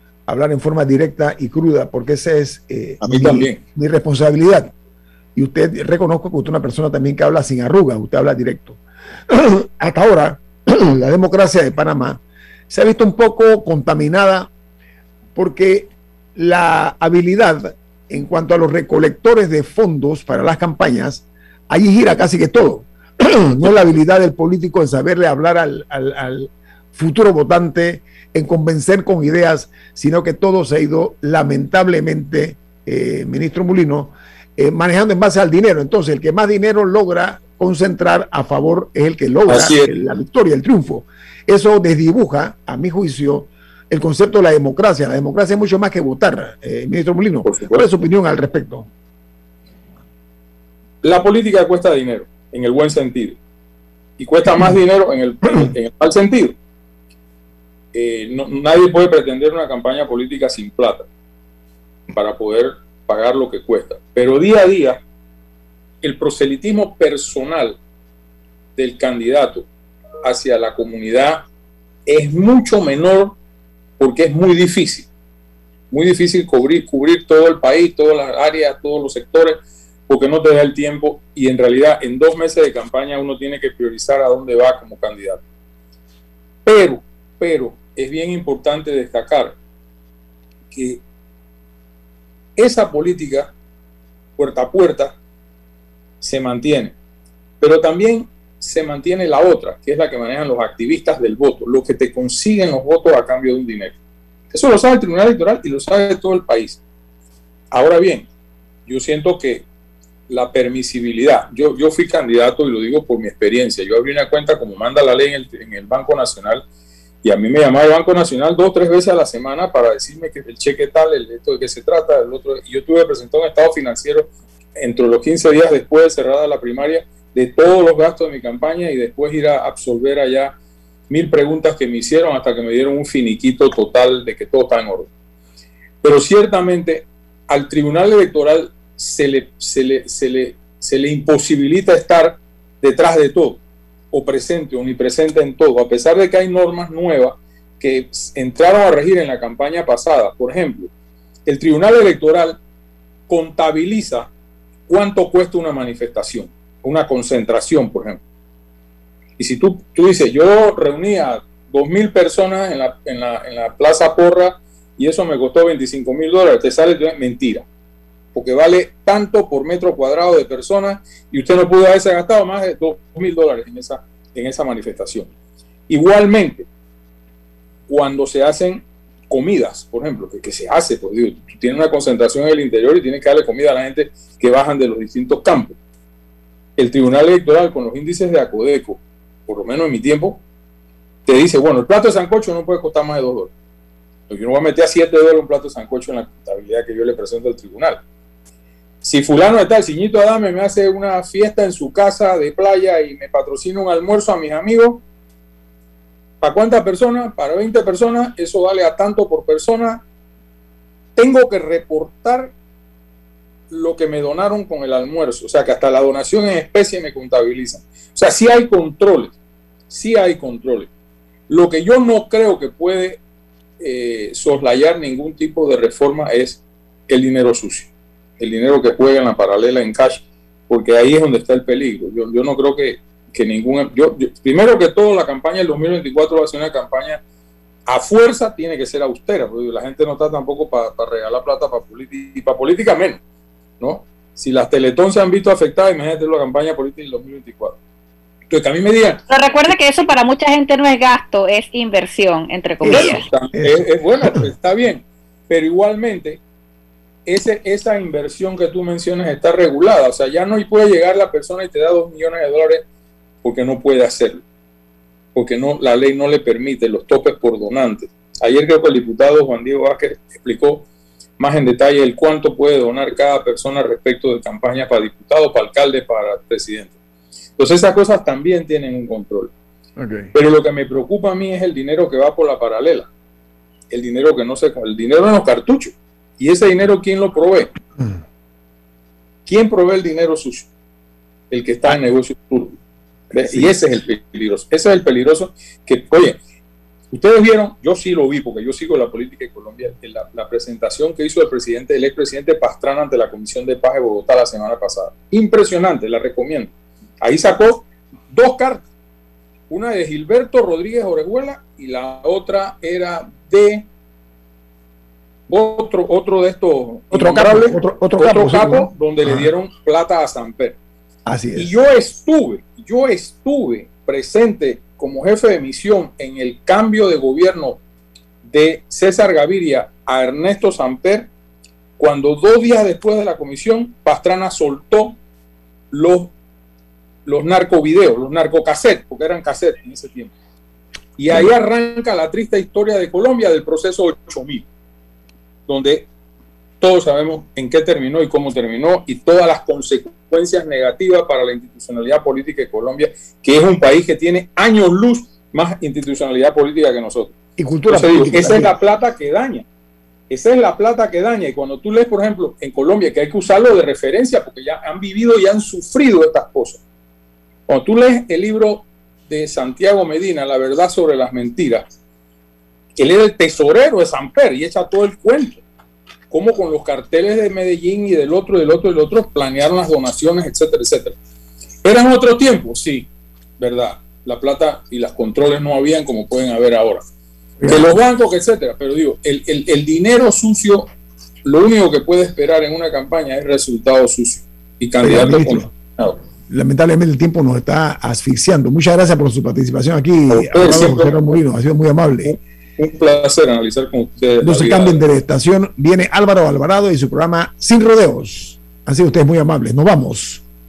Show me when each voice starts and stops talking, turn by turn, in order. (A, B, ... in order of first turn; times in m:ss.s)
0:00.3-0:04.7 A
0:03.0-0:03.6 B
0:05.4-0:14.5 A
0:15.4-0:48.9 A
0:39.5-0:39.9 B
0:47.4-0:47.9 B
0:51.0-0:53.4 B
0:54.2-0:56.6 B
0:57.9-1:01.1 B
1:02.1-1:05.0 B
1:06.0-1:07.8 B
1:08.8-1:09.7 B
1:10.2-1:11.4 B
1:12.1-1:13.4 B
1:14.0-1:15.1 B
1:15.9-1:25.4 B
1:26.6-1:29.6 B
1:30.7-1:31.0 B
1:32.6-1:33.5 B
1:34.4-1:35.2 B
1:36.2-1:37.0 B
1:37.6-1:44.0 B
1:44.5-1:46.8 B
1:47.7-1:48.3 B
1:48.9-1:49.7 B
1:50.3-1:56.6 B
1:57.2-2:10.5 B
2:11.1-2:15.1 B
2:16.0-2:30.9 B
2:31.5-2:32.6 B
2:33.3-2:34.3 B
2:34.9-2:38.2 B
2:39.4-2:47.7 B
2:48.3-2:55.3 B
2:55.9-2:56.7 B
2:57.9-3:05.8 B
3:06.8-3:10.4 B
3:11.3-3:13.5 B
3:14.3-3:18.0 B
3:19.0-3:25.0 B
3:26.4-3:30.0 B
3:31.2-3:32.5 B
3:33.7-3:39.4 B
3:39.9-3:40.9 B
3:41.5-3:43.2 B
3:43.8-3:57.2 B
3:57.9-4:03.2 B
4:03.8-4:07.8 B
4:08.5-4:09.8 B
4:09.3-4:13.3 C
4:12.8-4:14.4 A
4:12.9-4:16.4 B
4:17.3-4:22.8 B
4:23.4-4:24.4 B
4:25.4-4:30.9 B
4:31.4-4:37.0 B
4:37.6-4:39.5 B
4:40.3-4:43.1 B
4:43.9-4:47.7 B
4:49.5-4:50.7 B
4:51.5-4:52.8 B
4:53.3-4:53.7 A
4:53.3-4:56.4 B
4:57.1-5:08.8 B
5:09.7-5:13.9 B
5:15.5-5:20.8 B
5:17.1-5:19.5 A
5:21.3-5:21.7 A
5:21.6-5:27.8 B
5:28.4-5:31.3 B
5:32.0-5:35.2 B
5:35.9-5:36.3 B
5:37.3-5:40.3 B
5:41.2-5:44.7 B
5:45.7-5:46.1 B
5:46.8-5:57.3 B
5:57.6-5:58.8 A
5:57.9-5:59.7 B
6:00.3-6:06.8 B
6:07.7-6:11.8 B
6:13.0-6:15.6 B
6:16.3-6:21.2 B
6:21.8-6:27.0 B
6:27.6-6:27.9 A
6:27.6-6:30.9 B
6:31.4-6:36.2 B
6:35.0-6:35.7 A
6:36.5-6:42.4 A
6:40.3-6:41.2 B
6:42.2-6:45.0 B
6:44.4-6:50.4 A